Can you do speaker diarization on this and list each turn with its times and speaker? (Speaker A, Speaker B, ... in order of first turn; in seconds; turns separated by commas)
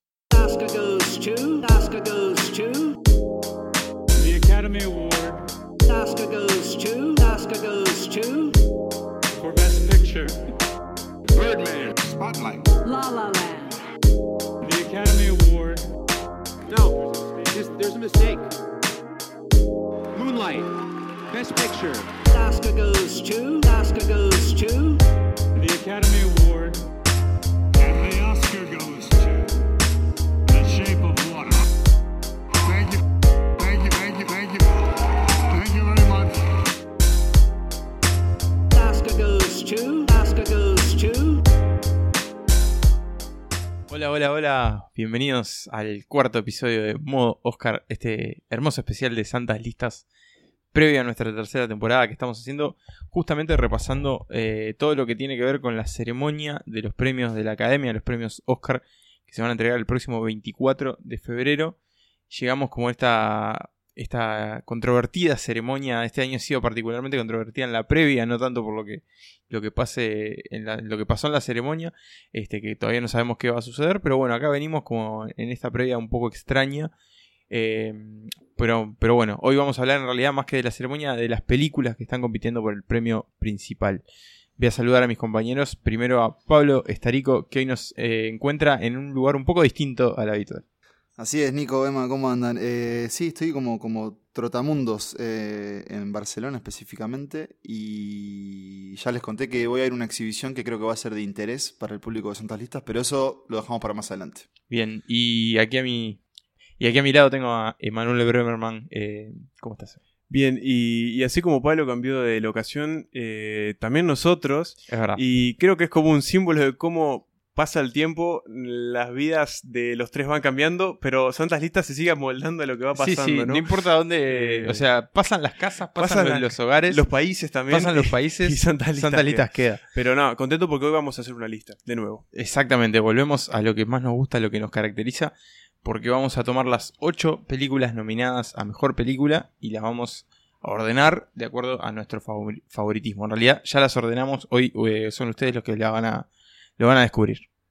Speaker A: 0.3-3.0, Speaker B: 4.2-5.4, Speaker A: 5.8-8.5, Speaker B: 9.3-10.4, Speaker C: 11.3-12.7, Speaker A: 12.8-13.7, Speaker B: 14.6-15.8, Speaker D: 16.7-18.5, Speaker D: 20.1-20.7, Speaker D: 21.3-22.1, Speaker A: 22.3-25.0, Speaker B: 25.6-26.8, Speaker C: 27.8-29.4, Speaker C: 30.5-31.5, Speaker C: 32.6-33.0, Speaker C: 33.6-34.6, Speaker C: 35.5-36.4, Speaker A: 38.7-41.4, Speaker E: 43.9-50.0, Speaker E: 50.7-61.8, Speaker E: 62.3-76.9, Speaker E: 77.5-84.0, Speaker E: 84.6-90.6, Speaker F: 91.2-104.5, Speaker E: 104.7-106.2, Speaker E: 106.8-110.0, Speaker G: 110.3-123.7, Speaker E: 114.9-115.2, Speaker E: 123.0-127.0, Speaker G: 124.2-124.8, Speaker G: 125.9-132.2, Speaker E: 127.7-129.8, Speaker E: 132.3-147.4